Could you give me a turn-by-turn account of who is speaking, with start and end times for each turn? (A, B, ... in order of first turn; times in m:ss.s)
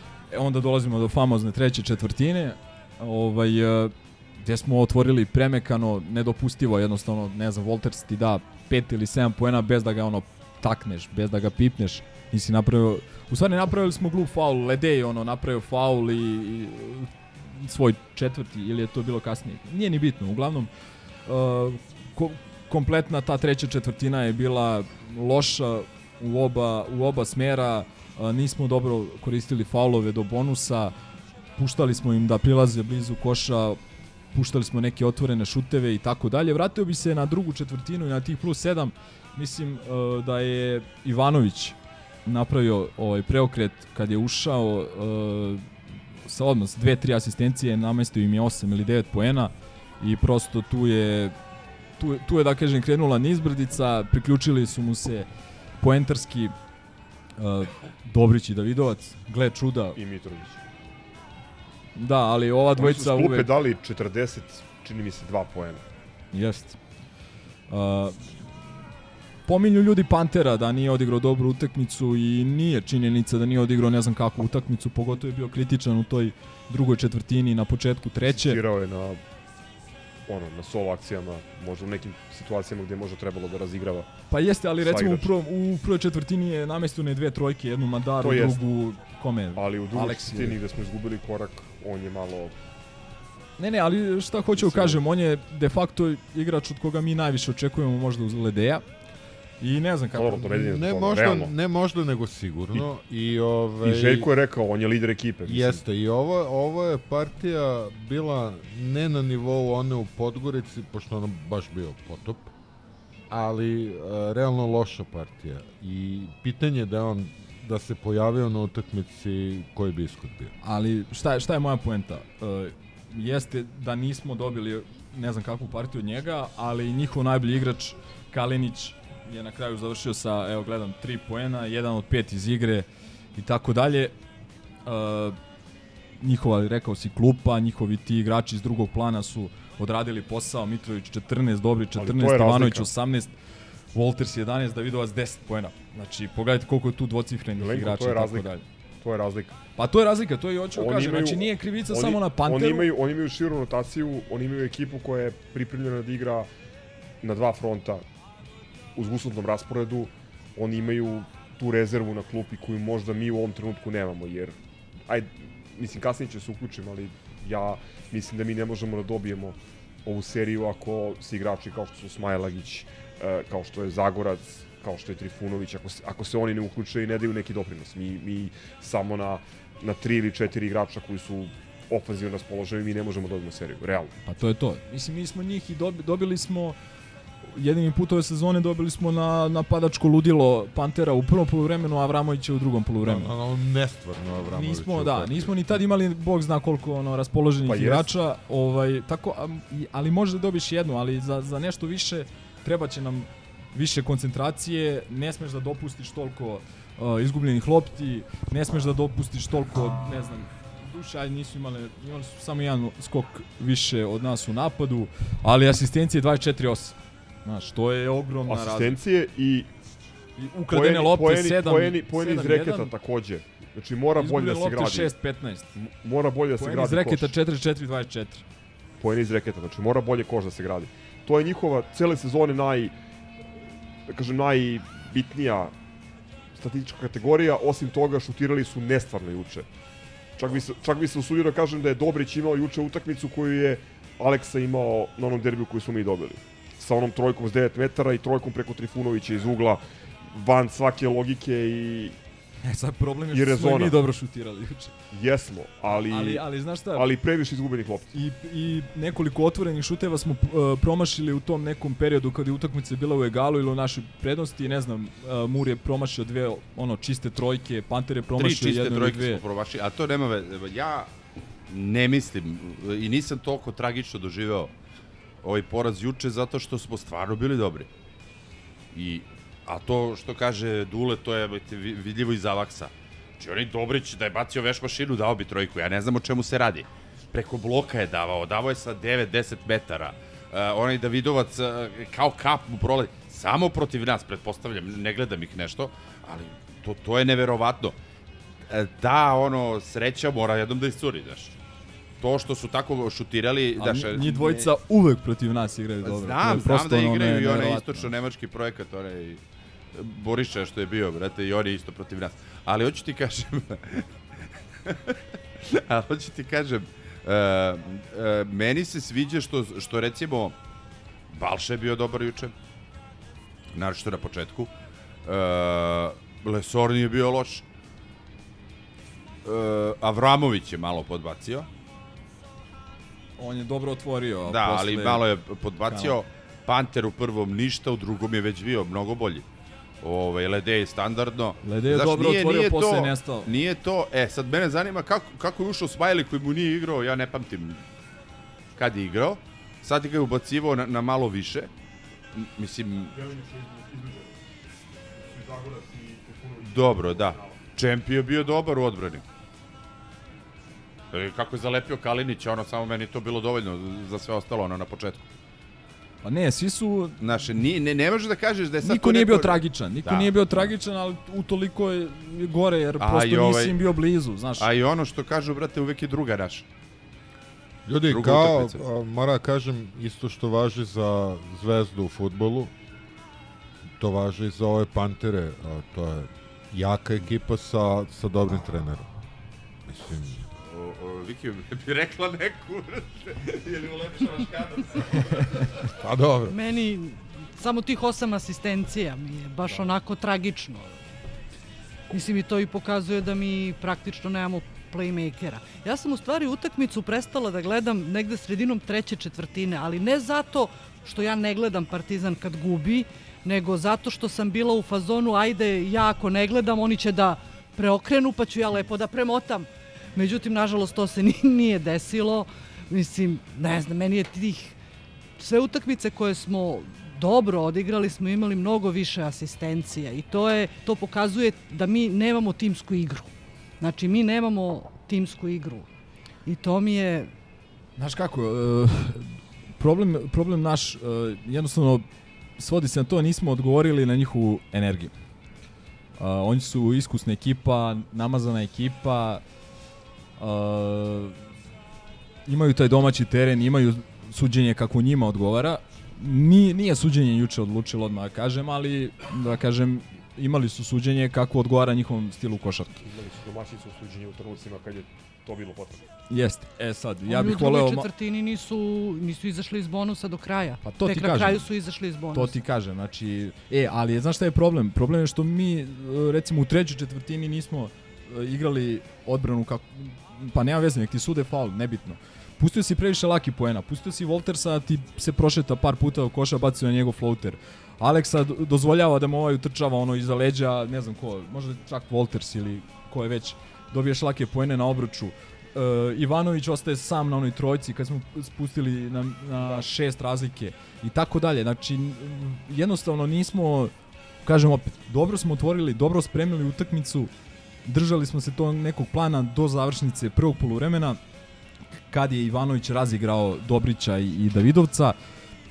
0:00.3-0:20.7 A
0:21.3-0:30.9 A
0:31.6-0:33.8 A
0:34.3-0:45.6 A
0:46.2-0:51.3 A
0:52.0-0:55.3 A
0:55.8-0:56.5 A
0:57.4-1:00.0 A
1:00.0-1:00.6 B
1:02.0-1:03.5 A
1:02.8-1:05.8 B
1:06.3-1:06.8 A
1:07.7-1:08.4 A
1:09.5-1:18.6 A
1:18.3-1:19.2 B
1:20.3-1:24.1 B
1:24.3-1:30.6 A
1:24.8-1:25.3 B
1:28.2-1:28.6 B
1:29.5-1:32.5 B
1:33.6-1:38.8 A
1:34.6-1:35.0 B
1:39.6-1:40.5 A
1:40.1-1:41.5 B
1:40.5-1:44.3 C
1:43.8-1:45.8 B
1:45.4-1:52.5 C
1:53.3-2:00.5 C
2:00.6-2:14.1 A
2:14.8-2:15.4 A
2:16.2-2:23.3 A
2:22.0-2:22.9 B
2:23.9-2:28.6 A
2:27.6-2:29.6 B
2:29.8-2:32.9 A
2:30.7-2:36.5 B
2:37.2-2:38.0 B
2:39.0-2:44.6 B
2:45.1-3:04.1 B
3:04.2-3:06.8 A
3:07.5-3:13.3 A
3:13.0-3:15.8 C
3:14.5-3:39.0 A
3:17.6-3:18.1 B
3:38.5-3:39.7 B
3:40.4-3:42.9 A
3:40.7-3:45.1 B
3:44.2-3:45.7 A
3:45.7-3:47.3 B
3:46.6-3:48.4 A
3:49.0-3:52.9 B
3:54.1-3:55.7 B
3:56.6-3:59.7 B
4:00.4-4:12.2 B
4:12.6-4:14.9 A
4:13.3-4:14.0 B
4:15.1-4:18.1 B
4:15.9-4:17.1 A
4:18.1-4:29.4 A
4:28.4-4:31.1 D
4:31.7-4:34.7 D
4:35.4-4:37.9 D
4:38.9-4:58.0 D
4:58.7-5:01.6 D
5:02.2-5:04.7 D
5:03.8-5:08.1 A
5:06.0-5:09.4 D
5:09.9-5:14.0 D
5:14.8-5:20.6 D
5:21.3-5:22.5 D
5:23.7-5:24.7 D
5:25.2-5:27.6 D
5:29.4-5:31.7 D
5:33.4-5:35.2 A
5:34.5-5:39.4 D
5:35.9-5:36.2 A
5:40.0-5:47.8 D
5:41.6-5:43.5 A
5:48.8-5:51.7 D
5:52.3-5:53.1 D
5:53.1-5:54.3 B
5:55.2-5:57.6 B
5:56.6-5:59.2 D
6:01.1-6:05.2 D
6:06.2-6:07.2 A
6:07.2-6:10.7 D
6:08.8-6:14.7 A
6:13.0-6:13.8 D
6:14.6-6:16.6 D
6:17.8-6:22.7 C
6:18.1-6:18.8 D
6:24.0-6:29.1 C
6:29.9-6:30.4 C
6:30.6-6:35.6 D
6:36.0-6:36.6 C
6:36.5-6:41.0 E
6:42.1-7:04.7 E
7:05.4-7:15.9 E
7:16.4-7:17.3 E
7:18.0-7:22.0 A
7:22.6-7:25.1 A
7:26.2-7:29.4 A
7:30.4-7:31.4 A
7:32.4-7:42.9 A
7:43.0-7:46.0 B
7:46.3-7:48.1 A
7:47.2-7:52.6 E
7:50.8-7:51.7 A
7:52.3-8:23.9 A
8:24.4-8:27.3 A
8:27.8-8:31.2 A
8:32.1-8:35.2 A